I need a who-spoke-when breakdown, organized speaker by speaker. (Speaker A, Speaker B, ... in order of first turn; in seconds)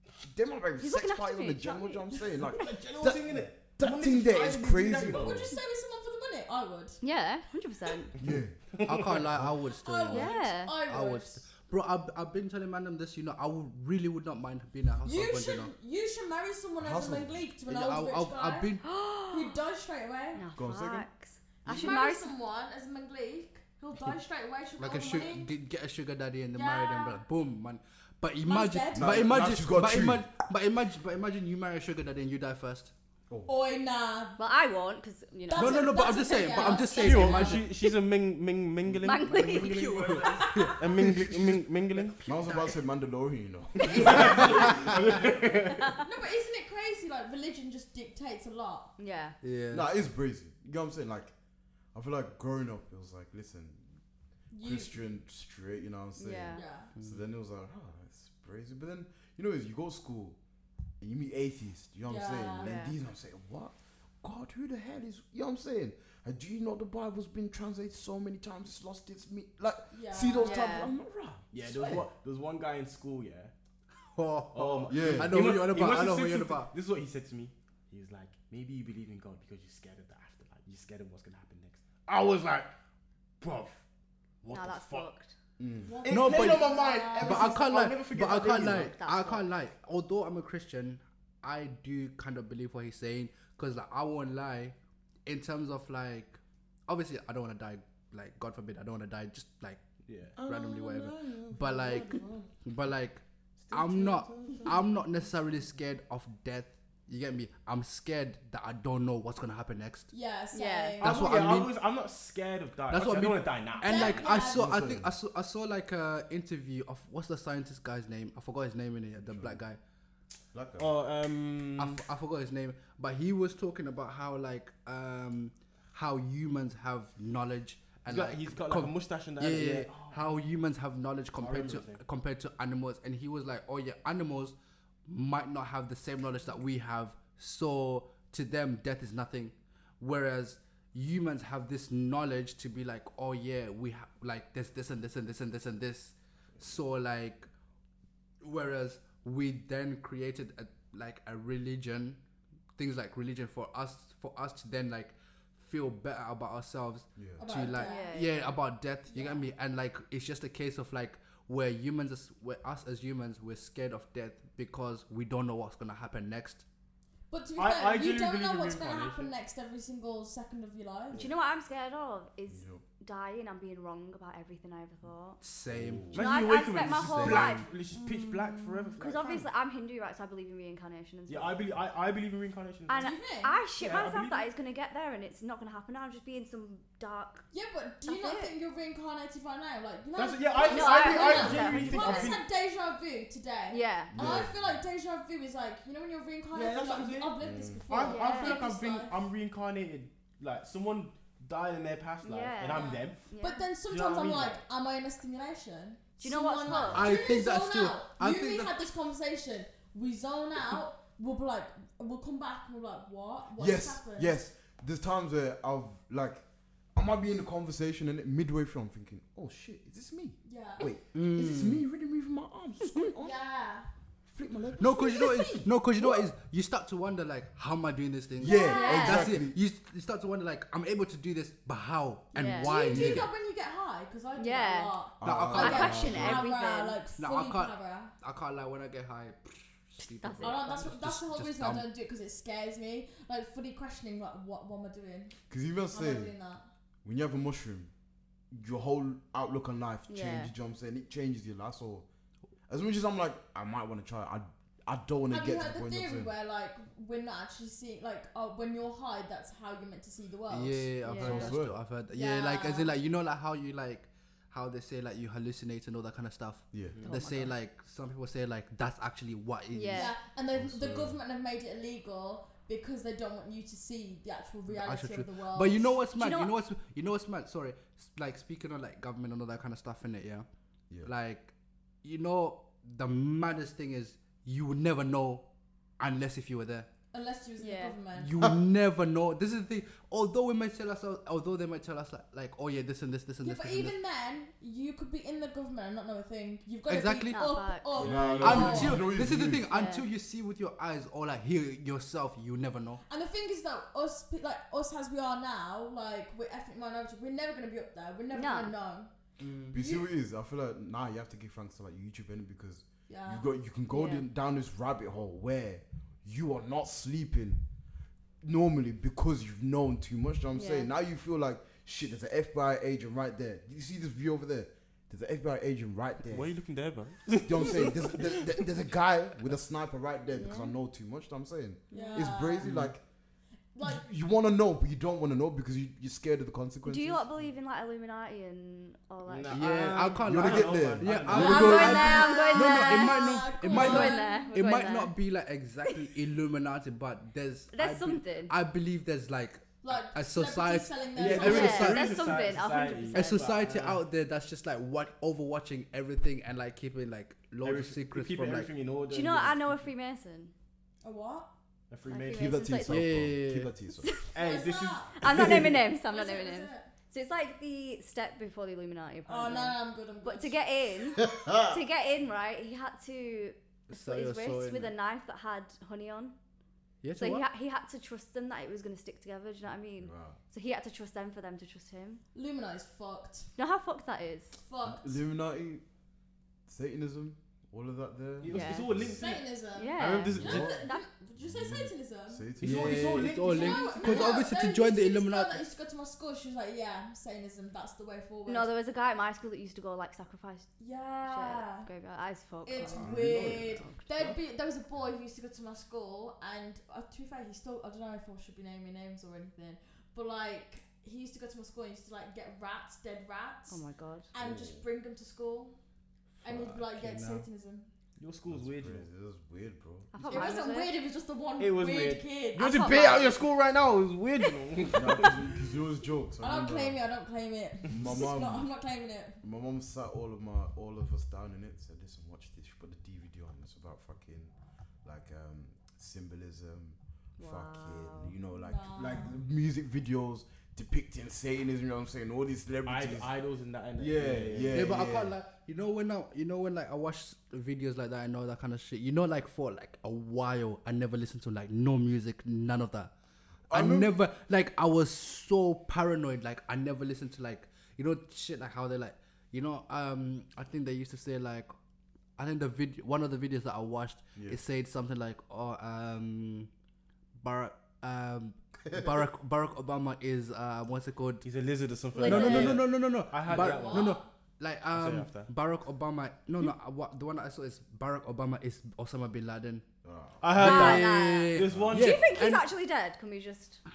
Speaker A: 0.2-5.6, 8.2-8.6, 16.8-17.5, 20.6-21.1, 28.9-30.3, 42.2-45.2, 49.7-51.3, 51.9-53.9, 54.6-60.4, 61.0-72.1, 74.9-75.5, 85.6-86.0, 100.4-102.5, 103.7-104.8, 114.5-115.1, 119.2-119.6, 120.5-120.9, 157.2-157.4, 172.5-172.8, 175.7-176.2, 194.1-194.8, 197.4-197.9, 206.7-207.0, 213.6-216.4, 216.9-223.4, 224.3-225.7, 228.4-229.6, 232.9-233.3, 235.2-236.5, 245.5-246.3, 247.0-247.9, 248.5-252.1, 252.7-256.3, 261.2-261.8, 266.7-267.1, 270.6-271.2, 297.9-299.7, 309.7-317.6, 318.4-326.5, 327.4-333.0, 333.8-337.3, 340.3-342.2, 362.3-364.1, 371.2-371.8, 380.0-380.4, 384.9-385.8, 386.7-389.2, 390.3-390.8, 391.4-393.3, 402.9-404.4, 414.5-414.8, 418.5-420.1, 424.9-427.0, 427.9-428.7, 429.4-434.5, 435.0-443.3, 444.0-445.3, 453.7-454.1, 480.0-480.4, 481.7-482.2
Speaker B: 0.8-2.1, 7.0-8.2, 10.1-10.7, 18.8-19.6, 20.4-22.3, 34.4-37.9, 39.0-40.7, 45.7-46.0, 49.0-49.4, 56.2-56.6, 62.6-63.0, 70.4-70.9, 84.5-85.3, 88.3-89.5, 110.5-111.0, 157.7-158.6, 171.2-175.4, 176.2-181.6, 182.9-187.4, 188.1-188.5, 190.7-192.4, 193.7-194.4, 198.0-198.6, 202.2-203.7, 206.2-207.2, 228.6-229.4, 232.3-232.7, 234.3-234.9, 235.5-237.0, 240.0-240.9, 250.1-250.5, 261.0-261.6, 267.1-267.5, 269.7-270.1, 276.2-276.5, 287.6-288.0, 297.3-298.8, 299.7-300.1, 308.3-308.7, 313.9-314.2, 320.6-320.9, 330.4-330.8, 331.9-332.3, 336.9-340.2, 341.3-345.2, 347.7-348.5, 351.3-353.4, 359.1-360.5, 362.1-363.0, 364.0-364.4, 365.1-376.4, 377.1-382.2, 383.6-384.6, 388.5-388.9, 389.8-391.1, 393.7-394.3, 398.5-400.7, 401.3-404.1, 413.7-414.3, 420.1-420.9, 422.7-423.4, 437.4-438.4, 472.1-472.8, 480.6-483.8
Speaker C: 2.4-5.5, 8.8-9.2, 37.0-42.2, 43.8-45.9, 71.5-73.5, 74.5-82.7, 83.4-83.8, 84.4-85.1, 86.0-88.9, 100.1-100.4, 111.0-114.2, 120.8-122.0, 128.1-130.4, 131.4-132.0, 167.6-169.3, 176.1-179.4, 181.3-183.0, 183.8-184.5, 190.2-192.5, 196.5-197.3, 197.9-203.2, 203.9-204.6, 298.0-298.6, 326.3-328.7, 339.2-341.9, 351.2-354.0, 357.6-359.9, 361.9-362.6, 364.3-365.8, 388.4-390.6, 392.6-394.3, 418.2-419.1, 421.6-425.4, 442.9-444.9, 471.4-474.2, 474.9-475.5, 480.4-482.3
Speaker D: 5.0-7.0, 9.8-11.5, 15.0-20.4, 21.6-25.5, 26.5-27.2, 28.4-29.5, 33.5-34.4, 35.5-37.6, 43.9-44.4, 46.0-48.9, 54.5-55.0, 56.5-56.9, 62.0-62.8, 69.9-70.7, 85.8-87.9, 110.1-111.5, 113.8-114.8, 157.4-158.2, 159.1-159.5, 167.3-171.3, 183.0-183.6, 187.5-199.2, 202.6-214.3, 220.4-220.9, 223.2-223.9, 225.0-225.7, 228.4-229.3, 232.5-238.2, 240.4-245.3, 245.9-246.7, 255.3-260.9, 262.1-262.9, 269.9-276.0, 287.1-288.3, 293.4-299.1, 303.1-309.1, 309.8-310.1, 313.1-313.4, 331.9-332.7, 333.7-334.0, 341.5-344.5, 349.8-352.0, 361.0-361.5, 364.4-365.2, 366.0-366.9, 369.3-370.6, 382.3-383.5, 384.6-385.2, 389.2-392.6, 393.4-398.7, 400.8-401.9, 402.6-413.8, 414.3-415.8, 416.4-417.9, 420.2-423.4, 426.4-429.4, 438.6-439.4, 473.5-474.3
Speaker E: 8.8-15.7, 17.7-18.8, 24.8-32.9, 35.5-37.7, 39.3-41.6, 44.2-44.9, 49.4-49.9, 57.0-57.2, 74.0-76.7, 86.1-94.8, 95.3-99.8, 100.4-110.1, 111.0-111.7, 112.9-119.8, 121.8-134.6, 135.1-147.5, 148.4-152.2, 152.8-166.6, 175.4-177.7, 206.9-208.7, 221.1-221.8, 224.8-233.3, 235.2-236.2, 237.2-241.9, 260.5-270.2, 274.7-280.5, 281.0-285.4, 286.0-286.9, 288.1-293.9, 296.9-297.4, 298.4-303.0, 309.4-309.8, 332.6-332.9, 339.5-352.1, 353.1-358.7, 362.9-363.7, 373.9-374.9, 377.0-377.5, 392.6-395.6, 416.4-417.5, 444.7-453.1, 453.7-461.7, 462.4-466.7, 467.4-471.4, 472.2-479.9, 480.5-482.7